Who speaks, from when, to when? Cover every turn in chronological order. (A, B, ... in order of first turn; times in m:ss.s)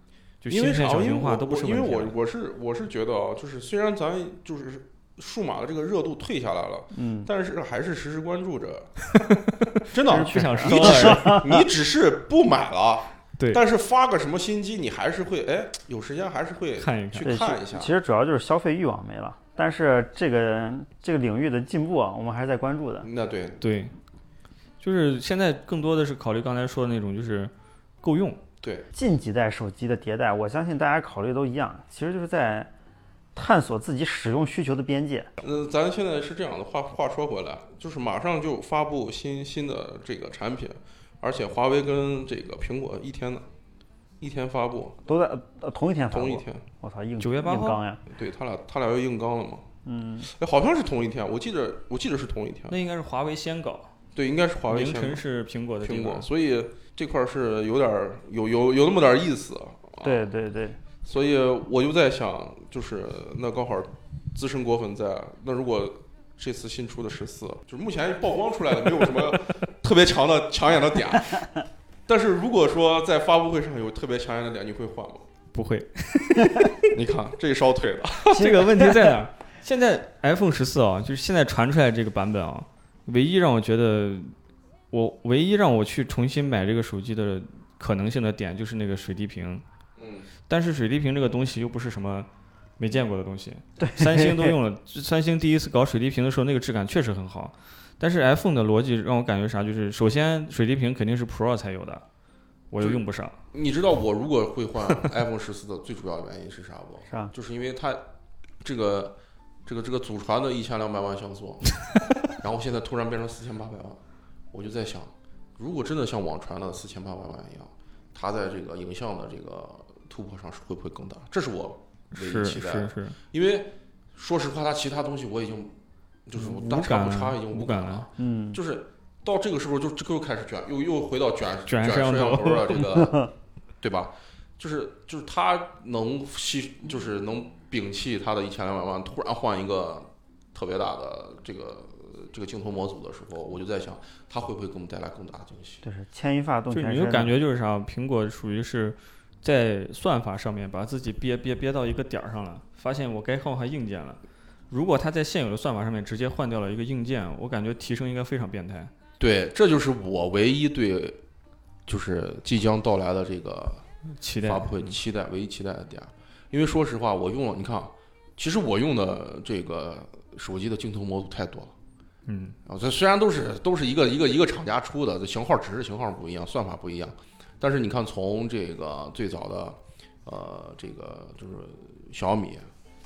0:00.4-0:02.1 A
0:00.5-0:08.9 B
0:06.9-0:07.3 C
0:09.2-0:11.4 A
0:09.9-0:17.9 B
0:10.1-0:11.7 C
0:13.4-0:13.6 A
0:16.8-0:17.3 A
0:17.2-0:23.1 C
0:23.0-0:23.6 B
0:23.6-0:24.0 A
0:24.8-0:28.4 A
0:28.6-0:28.9 B
0:28.9-0:32.7 C
0:33.4-0:35.3 C
0:35.4-0:43.5 B
0:44.2-0:45.0 B
0:45.1-0:48.0 C
0:46.1-0:46.6 B
0:47.2-0:47.8 A
0:48.1-0:49.7 B
0:49.8-0:50.3 C
0:50.2-0:52.7 B
0:52.7-0:53.9 A
0:54.2-0:55.2 B
0:54.7-0:56.3 A
0:55.8-1:00.2 B
1:00.0-1:00.8 C
1:01.0-1:15.3 B
1:15.5-1:16.9 A
1:16.9-1:18.6 B
1:18.3-1:24.4 A
1:18.3-1:19.1 C
1:24.9-1:29.6 A
1:30.0-1:30.3 B
1:30.5-1:42.0 A
1:33.8-1:34.6 C
1:42.7-1:43.4 A
1:42.8-1:48.0 B
1:48.6-1:54.0 B
1:54.5-2:05.7 B
2:02.2-2:03.2 A
2:06.3-2:25.8 B
2:06.4-2:08.1 A
2:08.2-2:08.6 C
2:11.7-2:12.8 A
2:13.0-2:13.3 C
2:25.8-2:27.3 C
2:26.7-2:38.9 A
2:39.2-2:41.2 B
2:41.9-2:43.9 B
2:44.1-2:45.0 A
2:44.4-2:51.7 B
2:52.3-2:52.6 A
2:52.7-3:02.7 B